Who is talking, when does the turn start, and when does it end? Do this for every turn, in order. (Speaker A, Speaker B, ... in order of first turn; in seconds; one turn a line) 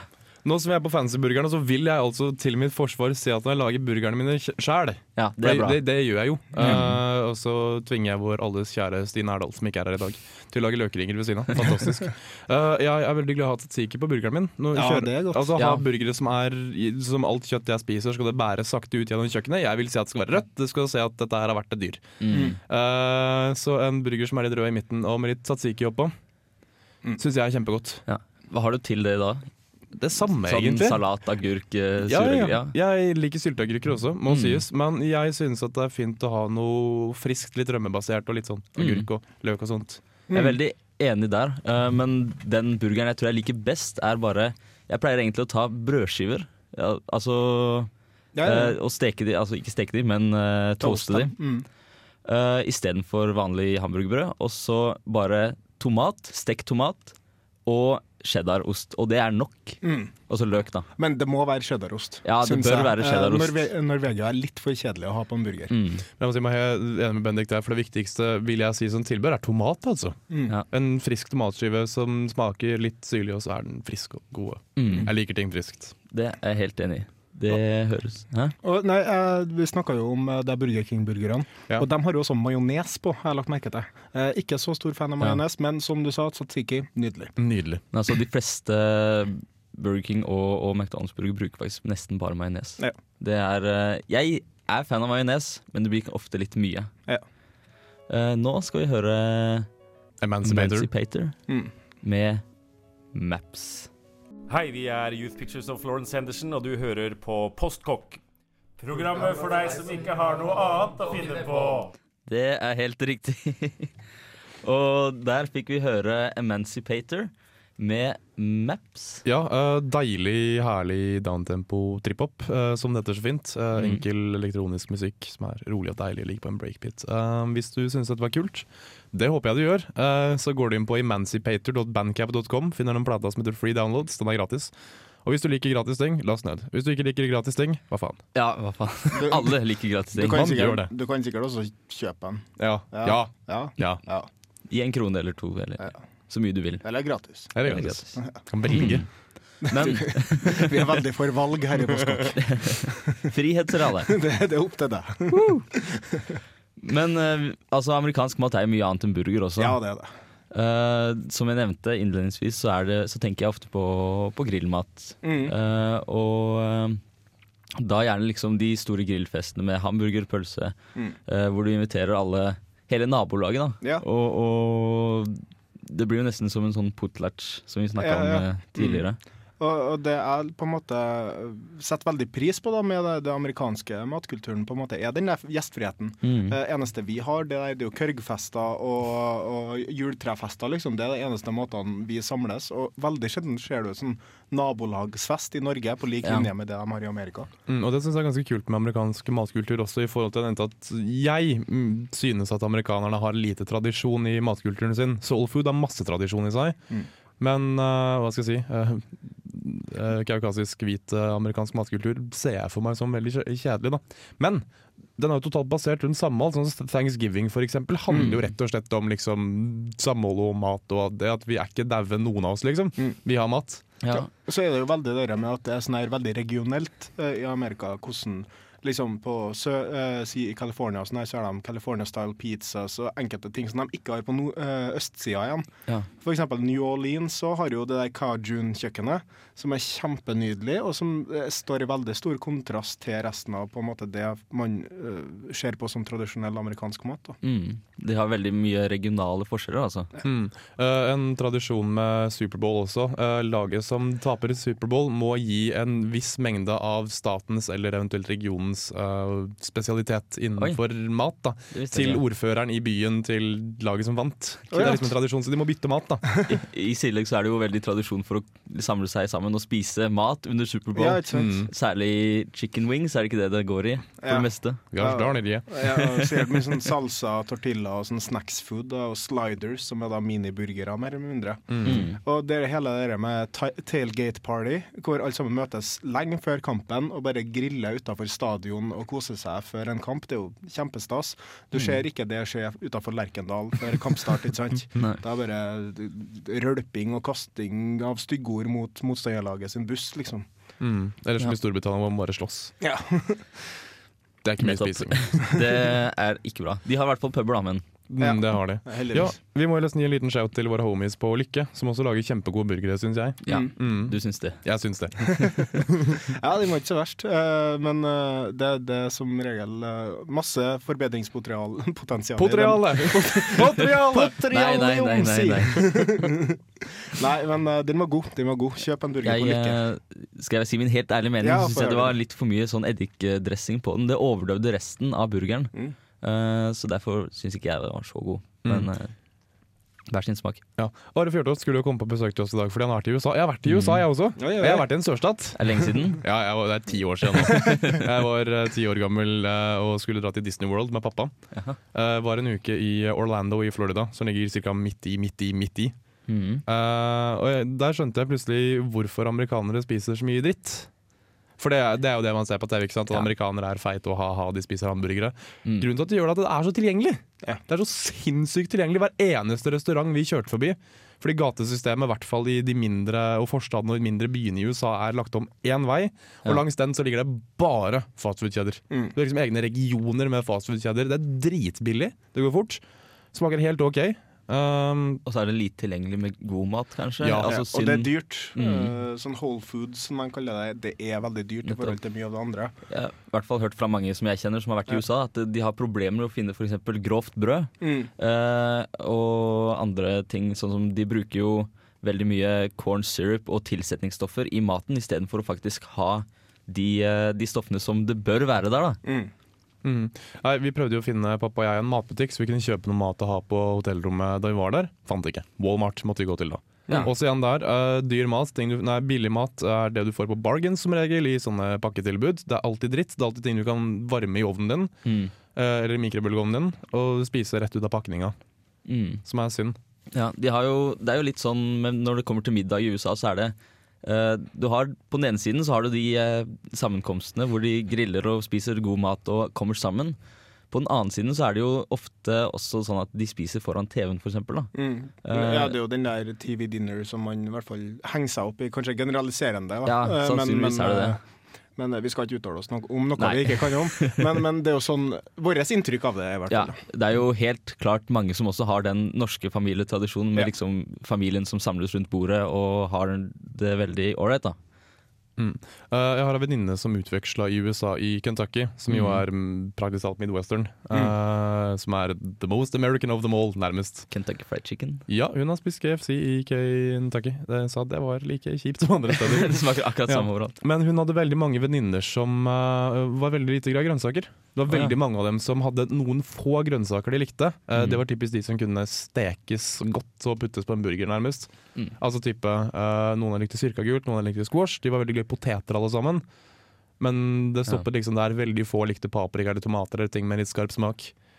Speaker A: 0.5-26.1
Speaker B: 5.2-5.8
Speaker B: 6.6-7.0
Speaker C: 14.7-15.6
Speaker B: 15.6-15.8
Speaker B: 22.2-22.6
Speaker C: 22.3-22.6
Speaker A: 27.2-28.0
Speaker B: 28.1-29.5
Speaker A: 30.0-31.0
Speaker B: 30.4-32.7
Speaker A: 32.1-40.0
Speaker B: 34.3-34.6
Speaker B: 38.8-39.1
Speaker C: 40.3-40.6
Speaker B: 40.3-47.9
Speaker C: 48.3-48.8
Speaker B: 48.4-51.4
Speaker C: 50.8-51.7
Speaker B: 52.2-57.1
Speaker B: 57.7-60.9
Speaker C: 59.8-60.1
Speaker C: 61.0-65.7
Speaker B: 62.2-63.7
Speaker B: 65.7-66.0
Speaker A: 66.2-70.2
Speaker A: 70.7-75.9
Speaker B: 74.8-75.1
Speaker B: 76.1-78.5
Speaker C: 78.6-87.3
Speaker A: 87.4-87.8
Speaker B: 87.9-96.9
Speaker B: 98.1-99.7
Speaker A: 100.2-100.9
Speaker B: 100.4-101.4
Speaker B: 102.0-102.4
Speaker B: 103.1-103.9
Speaker D: 104.5-108.2
Speaker D: 108.8-111.9
Speaker B: 112.3-113.9
Speaker B: 114.6-119.2
Speaker A: 119.2-134.7
Speaker B: 123.8-124.0
Speaker A: 135.2-138.2
Speaker B: 138.3-140.5
Speaker C: 139.1-139.6
Speaker C: 140.1-144.3
Speaker A: 140.3-140.9
Speaker A: 142.6-144.0
Speaker B: 144.7-146.8
Speaker C: 146.8-147.5
Speaker A: 147.6-149.1
Speaker B: 147.6-149.1
Speaker C: 149.6-153.2
Speaker B: 149.7-151.0
Speaker B: 152.4-154.2
Speaker C: 154.1-156.4
Speaker B: 155.3-155.7
Speaker B: 156.8-159.8
Speaker C: 159.6-160.1
Speaker B: 160.5-167.0
Speaker C: 165.2-165.5
Speaker B: 167.8-179.2
Speaker C: 178.0-179.1
Speaker C: 179.6-197.5
Speaker B: 186.2-186.6
Speaker B: 196.2-196.5
Speaker A: 197.7-206.8
Speaker A: 207.4-214.7
Speaker A: 215.2-223.8
Speaker B: 224.0-224.3
Speaker C: 224.1-247.4
Speaker B: 247.4-250.1
Speaker A: 250.2-266.4
Speaker B: 261.7-262.2
Speaker C: 264.7-265.1
Speaker B: 266.5-274.8
Speaker C: 270.9-271.6
Speaker A: 271.3-271.7
Speaker C: 274.2-300.5
Speaker A: 274.9-276.6
Speaker A: 281.7-282.0
Speaker B: 281.8-282.2
Speaker A: 300.8-302.7
Speaker C: 302.8-303.4
Speaker A: 304.4-305.5
Speaker B: 304.6-307.9
Speaker A: 308.1-316.2
Speaker C: 308.2-309.4
Speaker B: 313.4-314.6
Speaker C: 316.2-329.8
Speaker A: 322.4-324.4
Speaker B: 324.5-326.2
Speaker B: 329.2-339.1
Speaker C: 331.4-332.2
Speaker B: 340.1-340.6
Speaker A: 340.8-351.3
Speaker B: 343.7-344.1
Speaker C: 344.4-344.9
Speaker B: 345.6-346.2
Speaker B: 347.5-348.0
Speaker A: 351.9-355.9
Speaker B: 356.3-356.6
Speaker A: 356.7-360.9
Speaker A: 361.6-382.8
Speaker A: 383.3-385.2
Speaker B: 385.2-388.9
Speaker A: 387.2-387.6
Speaker C: 387.4-392.8
Speaker B: 391.7-391.9
Speaker B: 392.9-409.0
Speaker C: 397.8-398.1
Speaker C: 409.0-409.3
Speaker A: 409.8-424.9
Speaker B: 425.1-425.3
Speaker A: 425.5-428.4
Speaker B: 428.9-429.2
Speaker A: 429.2-429.8
Speaker B: 430.1-440.2
Speaker B: 440.7-445.8
Speaker C: 444.8-451.2
Speaker B: 449.9-451.2
Speaker C: 451.8-456.8
Speaker B: 453.2-454.2
Speaker B: 456.5-464.6
Speaker A: 465.4-474.1
Speaker B: 468.9-469.2
Speaker B: 474.1-475.1
Speaker A: 475.1-496.2
Speaker B: 479.2-480.6
Speaker B: 484.7-484.9
Speaker B: 487.8-488.0
Speaker A: 497.0-501.1